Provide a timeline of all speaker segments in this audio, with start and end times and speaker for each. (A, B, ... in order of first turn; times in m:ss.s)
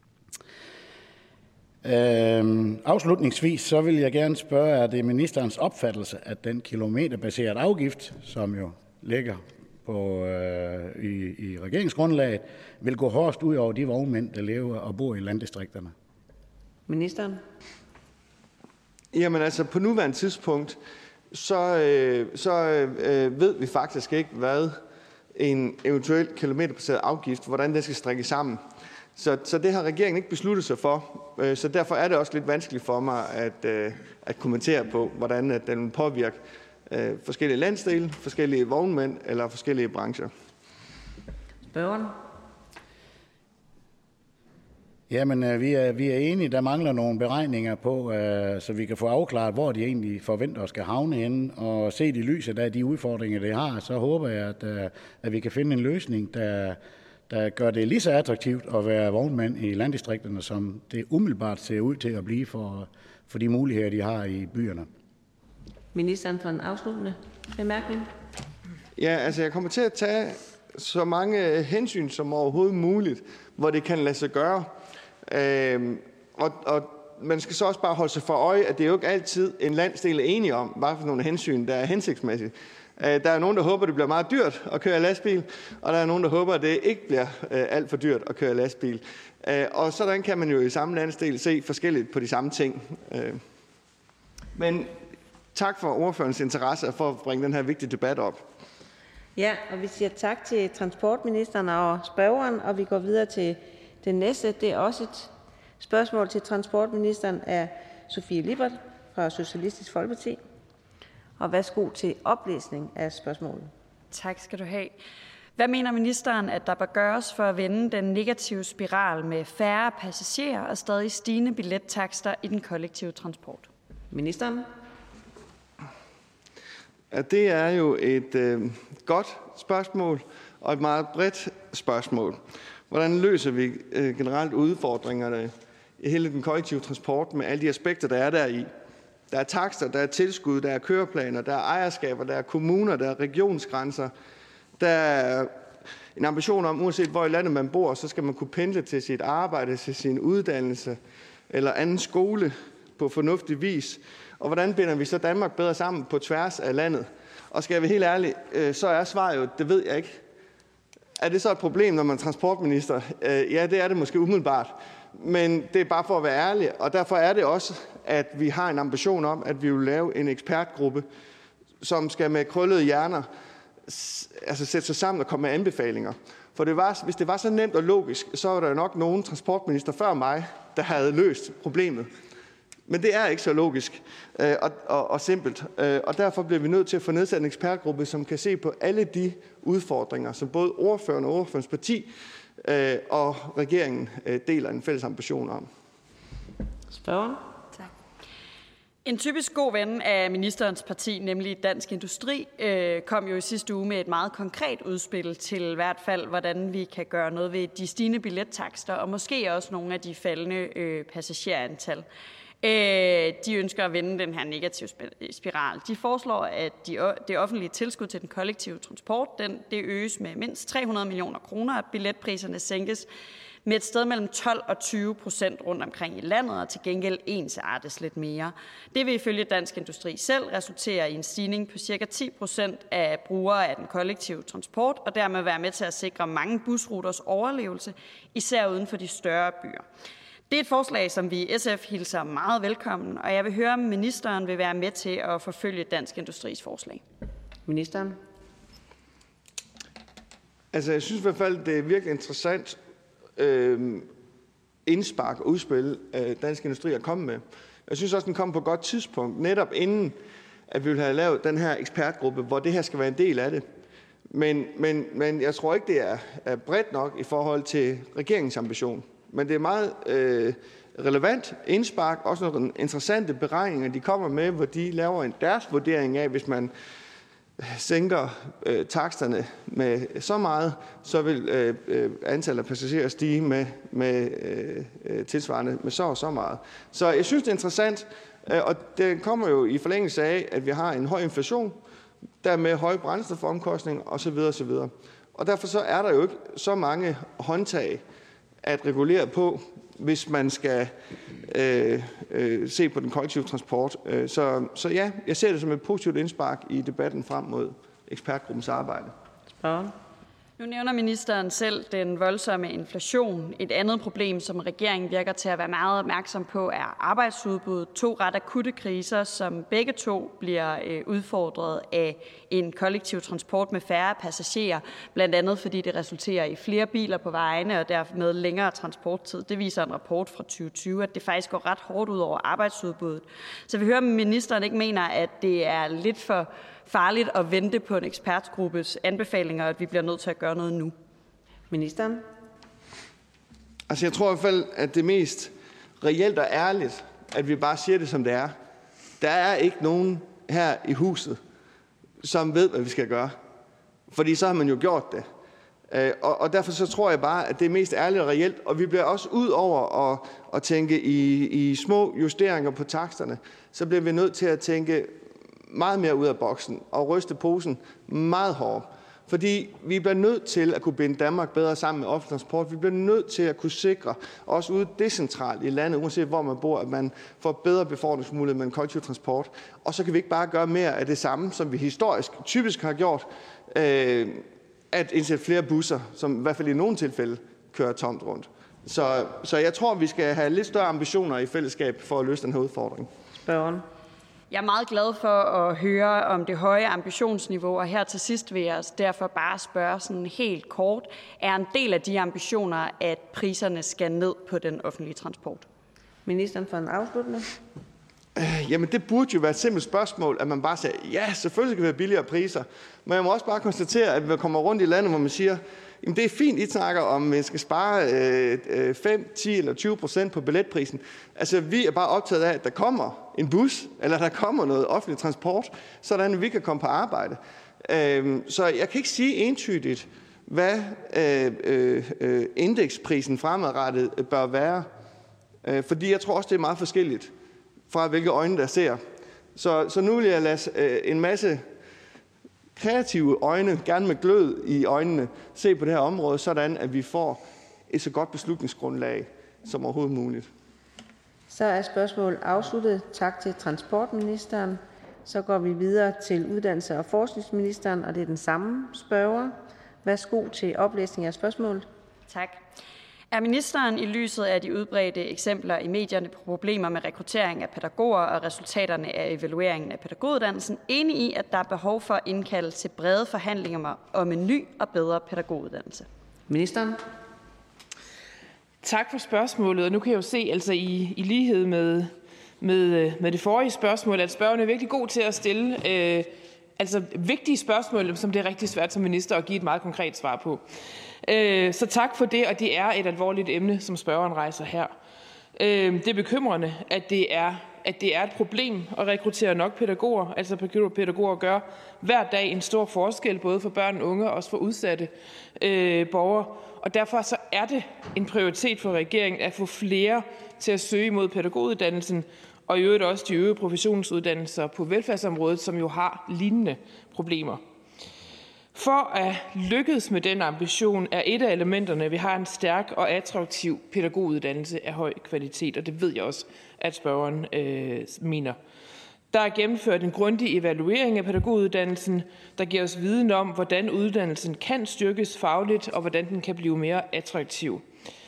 0:01.8-0:15.9 A
0:16.9-0:17.4 B
0:19.1-0:20.8 C
0:21.3-0:24.8 C
0:25.4-0:28.6 C
0:29.2-0:40.3 C
0:41.6-0:42.2 B
0:45.1-0:56.8 A
0:57.3-1:04.9 A
1:05.9-1:08.1 B
1:09.0-1:14.7 C
1:15.3-1:33.4 C
1:34.6-1:34.9 C
1:35.6-1:38.4 C
1:39.4-1:50.4 B
1:51.4-1:53.7 B
1:54.1-1:54.9 D
1:55.6-2:03.7 D
2:04.1-2:04.7 B
2:07.1-2:12.4 C
2:12.9-2:18.7 C
2:19.3-2:24.1 C
2:24.8-2:25.5 C
2:26.2-2:31.0 C
2:31.5-2:40.2 C
2:41.2-2:51.0 C
2:51.8-2:53.3 C
2:53.9-3:02.1 C
3:02.9-3:12.1 C
3:12.6-3:15.7 C
3:16.9-3:17.4 B
3:19.0-3:32.0 D
3:32.6-3:43.1 D
3:43.6-3:59.8 D
4:00.5-4:07.0 D
4:07.6-4:08.2 B
4:10.7-4:12.8 C
4:13.4-4:14.1 C
4:14.8-4:20.1 C
4:20.7-4:23.6 C
4:24.3-4:36.7 C
4:37.7-4:51.8 C
4:52.4-4:58.0 C
4:58.6-5:00.9 C
5:01.5-5:09.1 C
5:09.5-5:09.9 B
5:10.6-5:40.9 D
5:41.7-5:42.2 B
5:43.9-5:48.5 C
5:49.2-5:51.4 C
5:52.2-5:53.4 C
5:54.1-5:55.3 C
5:55.9-6:05.1 C
6:05.7-6:33.1 C
6:33.4-6:33.8 B
6:34.5-6:45.6 D
6:46.3-6:47.5 B
6:48.4-7:14.9 C
7:15.6-7:17.3 C
7:17.9-7:19.0 C
7:19.6-7:21.6 C
7:22.8-7:30.4 C
7:31.5-7:41.8 B
7:42.3-7:42.6 D
7:43.3-7:56.1 D
7:56.5-7:57.0 B
7:58.8-8:10.6 E
8:11.2-8:14.9 E
8:15.6-8:37.6 E
8:38.7-8:48.6 E
8:49.3-8:57.8 E